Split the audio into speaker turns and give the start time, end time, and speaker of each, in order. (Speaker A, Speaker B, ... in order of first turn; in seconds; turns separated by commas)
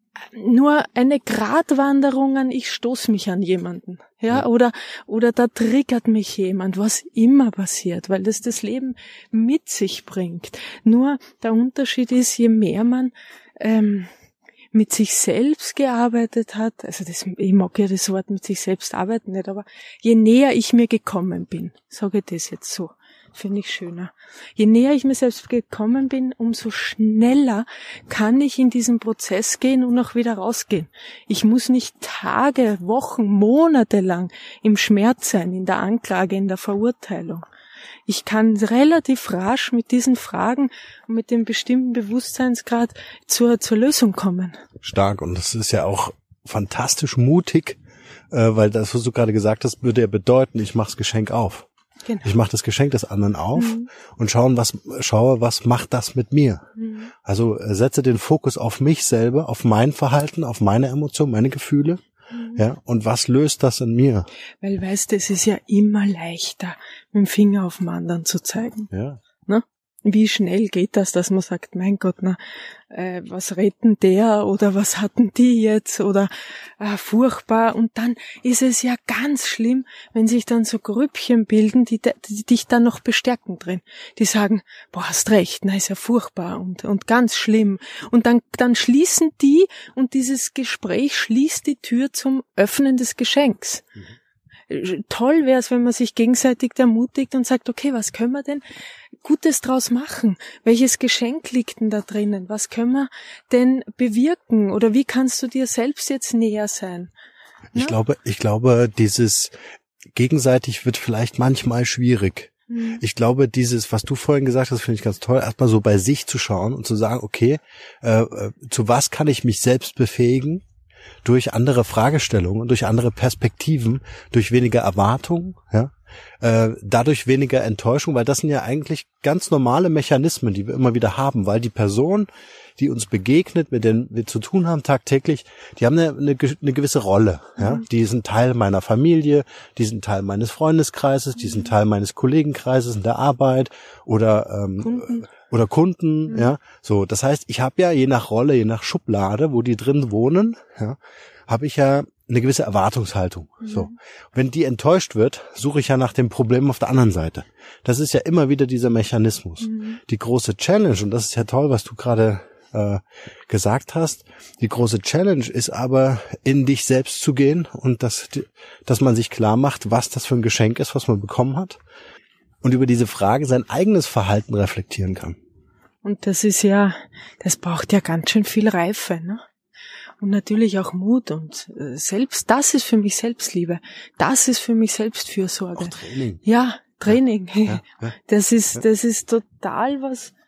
Speaker A: 0.2-14.1, Speaker A: 14.7-37.4, Speaker A: 38.1-44.6, Speaker B: 44.8-47.8, Speaker B: 48.3-51.7, Speaker B: 52.2-56.7, Speaker A: 53.5-53.9, Speaker A: 56.8-57.1, Speaker B: 57.2-62.0, Speaker A: 62.3-62.6, Speaker B: 62.5-64.3, Speaker A: 64.6-68.9, Speaker B: 68.9-69.2, Speaker A: 69.4-93.9, Speaker A: 94.7-98.6, Speaker A: 99.2-107.1, Speaker B: 107.7-109.5, Speaker B: 110.1-120.6, Speaker A: 112.7-113.0, Speaker B: 121.2-171.8, Speaker A: 137.6-137.8, Speaker A: 144.8-145.3, Speaker A: 153.6-153.9, Speaker A: 159.6-160.0, Speaker B: 172.6-175.4, Speaker A: 176.0-179.4, Speaker A: 180.2-190.3, Speaker B: 185.8-186.4, Speaker B: 187.7-188.1